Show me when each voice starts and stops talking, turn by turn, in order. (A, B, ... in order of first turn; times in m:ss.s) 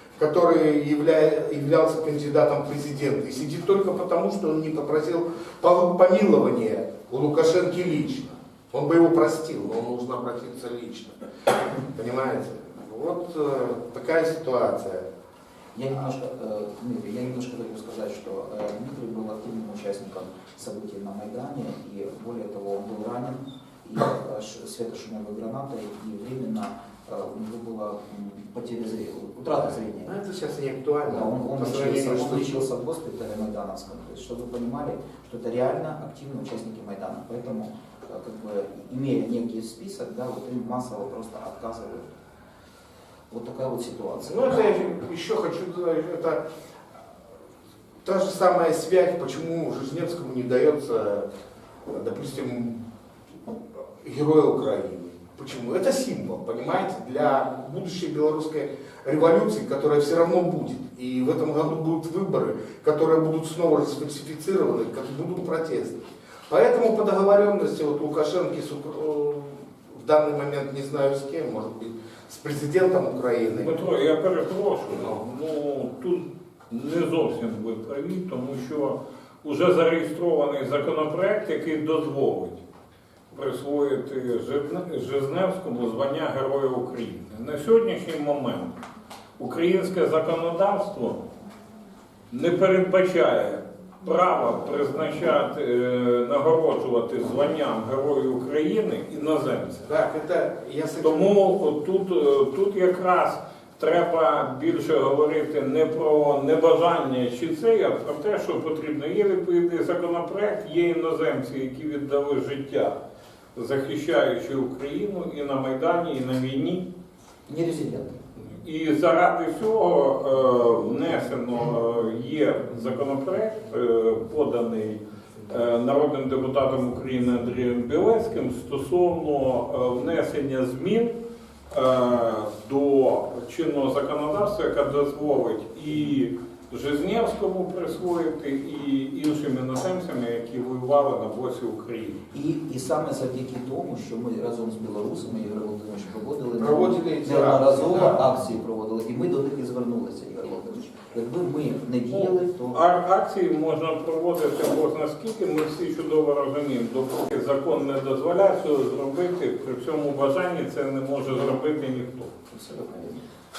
0:00.2-0:11.2 A
0:11.8-0:15.1 A
0:15.7-0:30.1 B
0:29.7-0:32.6 A
0:31.0-0:42.1 B
0:43.3-0:44.6 B
0:44.2-0:46.4 A
0:48.0-0:51.2 A
0:51.9-0:52.8 A
0:54.0-1:13.8 A
1:13.5-1:22.6 C
1:14.9-1:15.2 A
1:23.3-1:28.8 C
1:29.4-1:31.2 C
1:32.3-1:39.8 C
1:39.8-1:41.3 A
1:41.0-1:53.0 C
1:53.5-1:56.9 C
1:57.5-1:58.2 B
1:58.6-2:11.1 C
2:11.7-2:22.2 C
2:22.3-2:32.8 B
2:26.6-2:28.3 A
2:32.1-2:42.3 C
2:42.5-2:43.2 B